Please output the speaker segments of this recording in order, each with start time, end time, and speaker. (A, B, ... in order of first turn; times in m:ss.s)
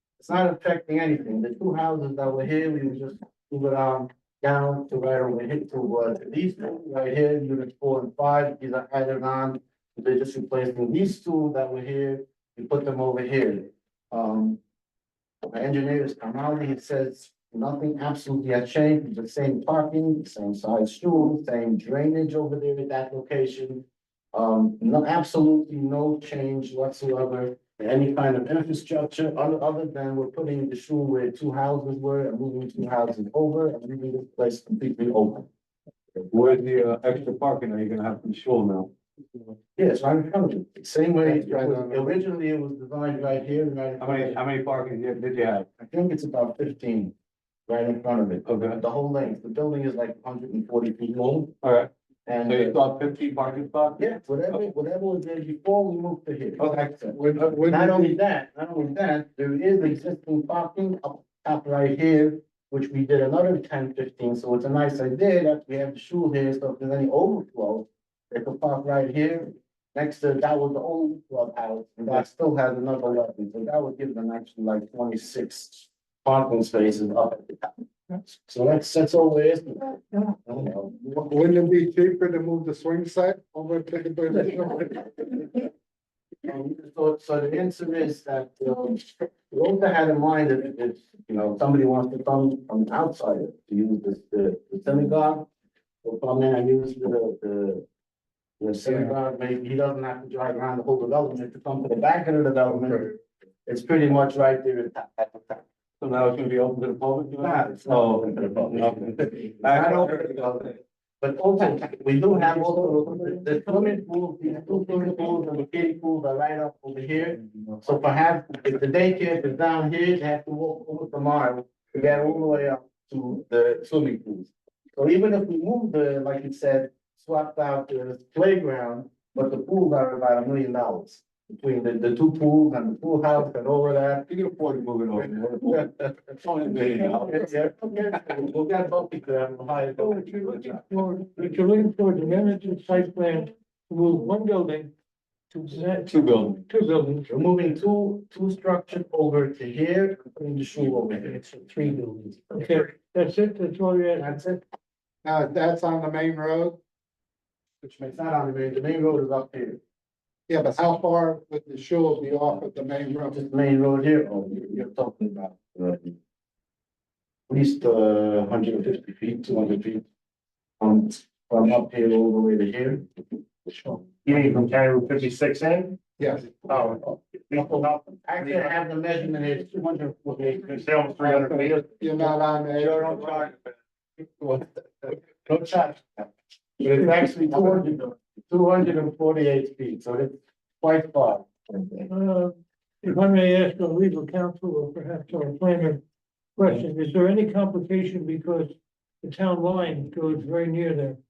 0:00.2-0:14.6 A
0:15.5-0:35.5 A
0:36.3-0:38.9 B
0:39.8-0:44.4 A
0:41.2-0:42.2 C
0:44.0-0:45.6 B
0:45.7-0:47.1 A
0:47.7-0:51.5 A
0:48.4-0:48.8 B
0:51.6-0:51.9 B
0:52.2-0:52.8 A
0:52.4-0:54.6 B
0:54.0-1:21.0 A
0:56.6-0:56.9 B
0:57.1-0:58.2 C
1:21.0-1:25.6 C
1:26.4-1:35.5 A
1:36.0-1:37.8 A
1:38.6-1:43.2 A
1:38.8-1:39.1 C
1:42.7-1:43.1 C
1:43.7-1:45.6 A
1:46.0-1:50.8 B
1:47.4-2:14.3 A
1:52.7-1:53.7 C
2:14.3-2:15.9 B
2:15.1-2:20.9 A
2:16.4-2:17.6 B
2:20.0-2:24.9 D
2:25.5-2:27.3 D
2:26.0-2:26.6 B
2:27.3-2:32.7 A
2:32.5-2:34.4 D
2:34.1-2:34.6 A
2:35.2-2:36.8 C
2:37.8-2:39.8 A
2:40.5-2:43.4 C
2:43.3-2:46.2 A
2:47.5-2:50.0 A
2:50.8-2:53.1 A
2:53.7-2:54.0 A
2:54.2-2:56.0 E
2:56.2-2:56.5 C
2:56.5-2:58.7 E
2:57.5-3:01.5 A
3:00.6-3:01.9 E
3:01.3-3:03.3 C
3:02.7-3:03.8 B
3:04.4-3:04.8 B
3:05.0-3:12.1 A
3:12.1-3:16.0 D
3:16.6-3:21.2 D